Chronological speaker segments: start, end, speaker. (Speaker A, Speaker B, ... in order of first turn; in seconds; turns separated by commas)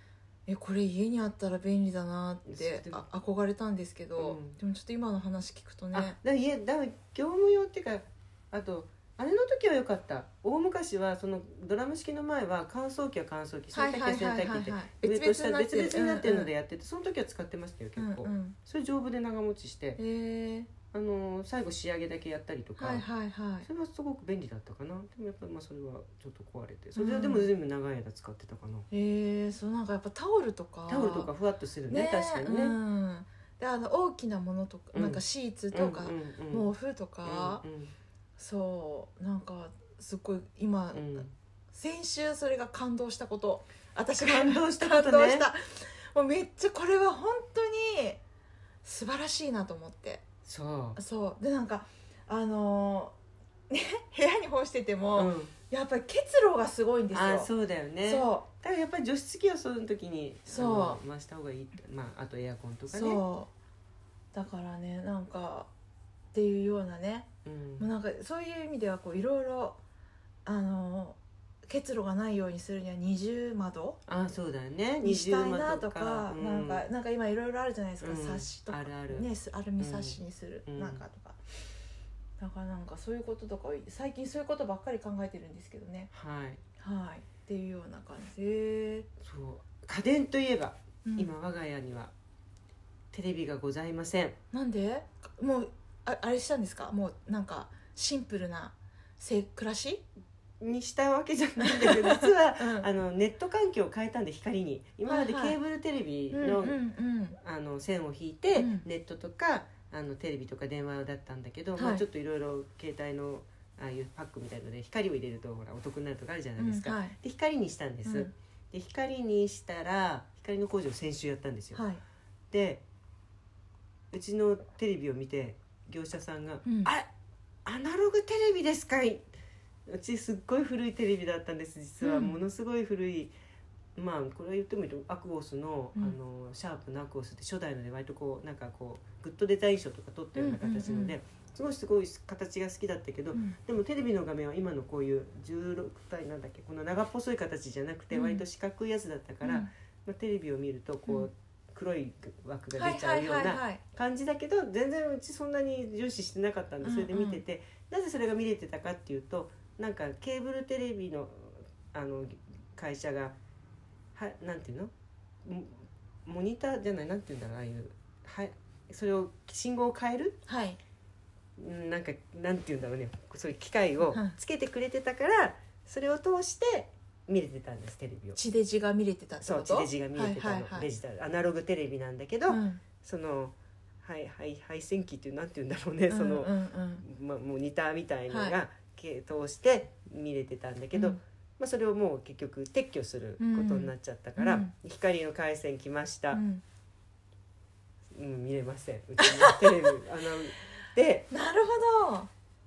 Speaker A: 0.5-6.2, Speaker B: 2.5-3.0, Speaker B: 4.2-4.6, Speaker B: 5.9-20.0, Speaker A: 13.7-16.5, Speaker A: 18.0-18.6, Speaker A: 20.0-20.7, Speaker B: 20.9-23.1, Speaker A: 22.8-23.7, Speaker B: 23.6-28.9, Speaker A: 27.0-27.5, Speaker A: 28.9-31.3, Speaker B: 30.9-32.8, Speaker A: 31.9-37.6, Speaker B: 34.9-36.7, Speaker B: 37.2-37.9, Speaker A: 38.4-48.2, Speaker B: 40.9-41.3, Speaker B: 44.2-45.5, Speaker A: 48.8-50.2, Speaker B: 50.5-51.0, Speaker A: 51.0-53.1, Speaker A: 53.7-57.5, Speaker B: 55.1-55.5, Speaker B: 57.1-63.2, Speaker A: 58.0-58.5, Speaker A: 60.5-61.0, Speaker A: 62.9-63.5, Speaker A: 64.3-65.7, Speaker A: 66.3-69.8, Speaker B: 67.5-67.9, Speaker A: 70.5-74.0, Speaker B: 74.1-76.8, Speaker A: 75.0-81.4, Speaker B: 78.0-79.3, Speaker B: 79.8-81.0, Speaker A: 82.4-86.1, Speaker B: 86.1-86.6, Speaker A: 86.8-89.1, Speaker B: 89.2-92.1, Speaker A: 91.0-91.3, Speaker B: 93.1-94.4, Speaker A: 94.5-100.0, Speaker B: 100.6-106.8, Speaker A: 101.6-102.9, Speaker A: 105.1-105.6, Speaker A: 106.3-107.4, Speaker B: 107.4-121.8, Speaker A: 108.5-108.9, Speaker A: 111.8-112.0, Speaker A: 116.6-117.2, Speaker A: 118.0-118.3, Speaker A: 121.7-122.0, Speaker B: 122.5-122.8, Speaker B: 124.1-127.1, Speaker A: 126.7-126.9, Speaker B: 127.7-129.2, Speaker B: 129.9-133.3, Speaker A: 132.0-132.4, Speaker B: 134.0-163.3, Speaker A: 140.4-141.2, Speaker A: 148.1-148.4, Speaker A: 149.4-149.7, Speaker A: 152.8-153.8, Speaker A: 156.8-157.4, Speaker B: 164.2-164.9, Speaker B: 165.4-170.4, Speaker A: 170.5-170.8, Speaker B: 171.6-178.4, Speaker A: 174.1-174.4, Speaker A: 178.4-180.9, Speaker B: 179.4-196.4, Speaker A: 182.5-182.8, Speaker A: 186.1-187.0, Speaker A: 188.3-188.6, Speaker A: 190.9-191.2, Speaker A: 193.4-194.7, Speaker A: 196.3-196.6, Speaker B: 198.1-201.3, Speaker A: 199.2-199.9, Speaker A: 201.3-202.3